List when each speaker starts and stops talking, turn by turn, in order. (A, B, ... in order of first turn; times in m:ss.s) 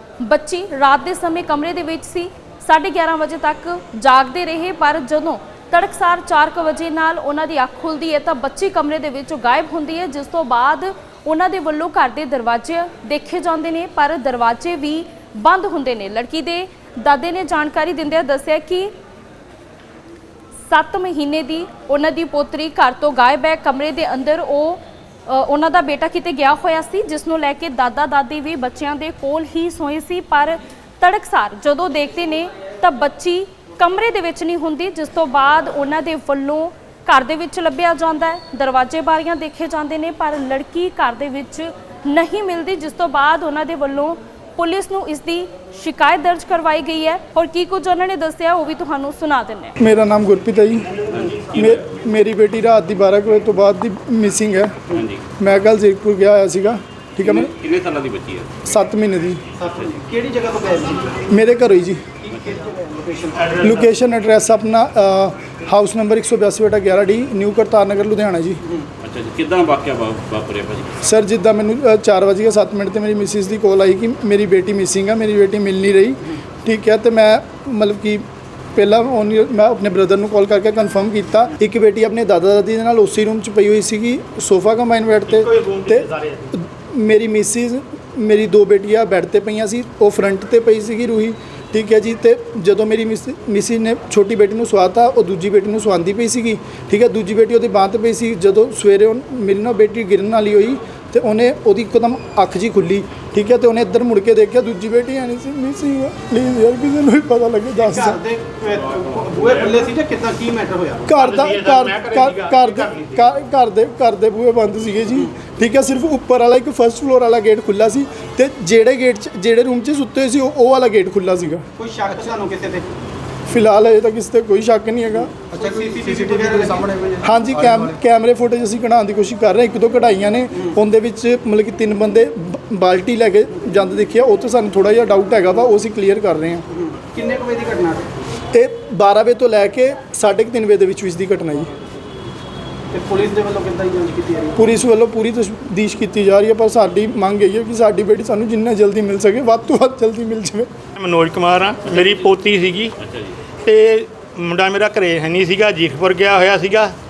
0:00.2-0:18.9 A
0:20.7-0:49.7 A
0:49.8-0:50.9 B
0:51.1-0:51.8 C
0:51.5-0:54.8 B
0:54.9-0:55.2 C
0:55.4-0:57.5 B
0:57.2-0:58.6 C
0:58.6-0:59.4 B
0:59.6-1:01.3 D
1:01.3-1:02.1 B
1:02.2-1:03.9 D
1:03.6-1:08.6 B
1:09.0-1:10.9 C
1:11.0-1:18.2 B
1:18.7-1:48.2 B
1:25.3-1:26.5 E
1:47.8-1:51.1 D
1:48.9-1:49.7 C
1:51.0-2:01.6 B
1:51.2-1:53.2 E
2:01.8-2:02.9 D
2:03.5-2:05.5 B
2:05.6-2:07.0 D
2:07.2-2:16.7 B
2:16.8-2:18.1 D
2:18.5-2:21.7 B
2:22.9-2:24.6 D
2:24.6-2:30.7 B
2:31.0-2:33.0 E
2:33.0-2:33.4 C
2:33.6-2:36.9 E